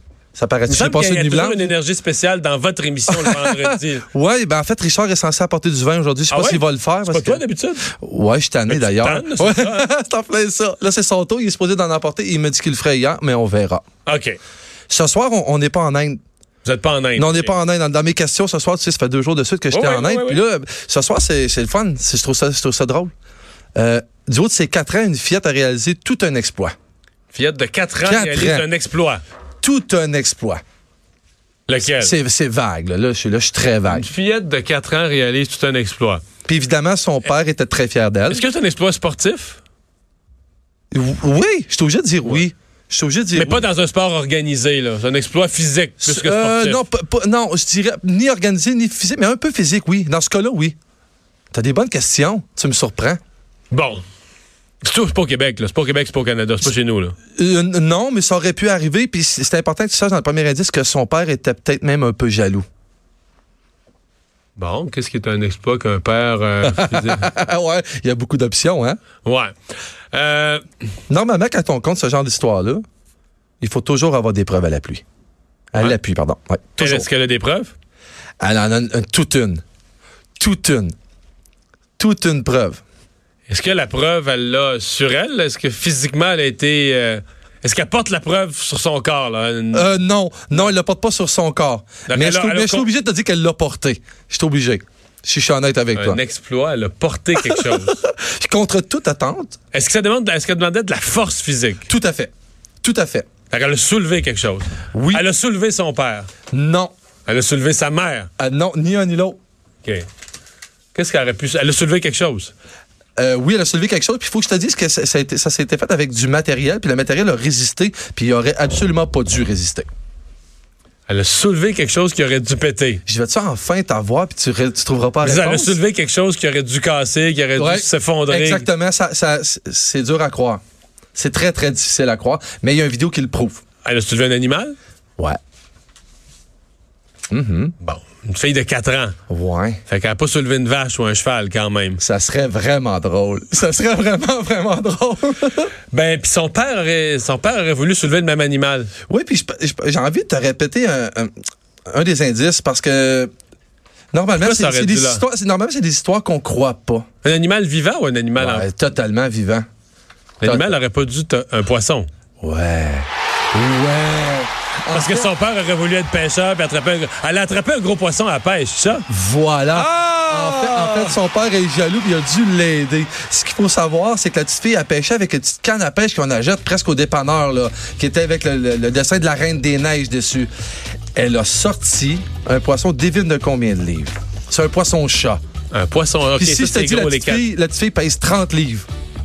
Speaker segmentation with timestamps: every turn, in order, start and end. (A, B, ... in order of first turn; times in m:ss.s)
0:00.3-0:01.7 A
0:00.7-0:04.1 B
0:03.1-0:13.8 A
0:06.3-0:07.9 B
0:08.7-0:09.9 B
0:14.0-0:14.4 B
0:14.9-0:16.2 A
0:16.6-0:17.6 B
0:17.2-0:23.1 A
0:19.7-0:20.4 B
0:23.7-0:26.7 A
0:27.3-0:29.2 B
0:28.0-0:28.7 A
0:29.6-0:30.6 A
0:31.7-0:32.2 B
0:31.8-0:34.1 A
0:33.9-0:36.2 B
0:36.4-0:38.4 A
0:38.3-0:39.6 B
0:40.9-0:43.7 A
0:43.3-0:46.8 B
0:46.0-0:50.8 A
0:51.5-0:53.2 A
0:53.7-0:54.0 B
0:54.8-0:57.2 B
0:57.4-1:02.6 A
1:04.6-1:07.3 B
1:06.6-1:09.0 A
1:09.2-1:09.5 B
1:10.1-1:10.6 B
1:11.1-1:12.8 A
1:13.6-1:15.0 A
1:15.7-1:17.1 A
1:16.8-1:17.7 B
1:18.4-1:19.6 A
1:20.4-1:20.9 A
1:22.0-1:22.8 A
1:23.5-1:29.9 B
1:29.7-1:36.2 A
1:32.1-1:32.9 B
1:36.0-1:38.0 B
1:37.4-1:39.6 A
1:39.7-1:41.9 B
1:41.9-1:43.3 A
1:43.5-1:46.3 B
1:44.9-1:45.2 A
1:46.5-1:46.9 A
1:47.3-1:48.3 B
1:48.4-1:49.4 A
1:50.9-1:52.5 B
1:53.2-1:59.9 A
2:01.1-2:03.0 B
2:03.1-2:05.8 A
2:05.2-2:08.7 B
2:07.6-2:10.6 A
2:11.1-2:13.6 A
2:13.8-2:14.8 B
2:17.3-2:17.8 A
2:17.8-2:19.1 B
2:19.3-2:19.8 A
2:19.9-2:22.0 B
2:22.0-2:25.7 A
2:25.9-2:28.9 B
2:29.1-2:31.3 A
2:31.9-2:33.3 A
2:34.1-2:37.0 A
2:34.4-2:35.2 B
2:37.2-2:38.7 B
2:38.4-2:39.7 A
2:40.4-2:42.1 B
2:40.4-2:40.8 A
2:42.4-2:45.3 A
2:44.9-2:49.0 B
2:49.1-3:00.5 A
2:49.7-2:51.1 B
3:01.1-3:05.4 A
3:05.7-3:07.5 B
3:06.4-3:08.9 A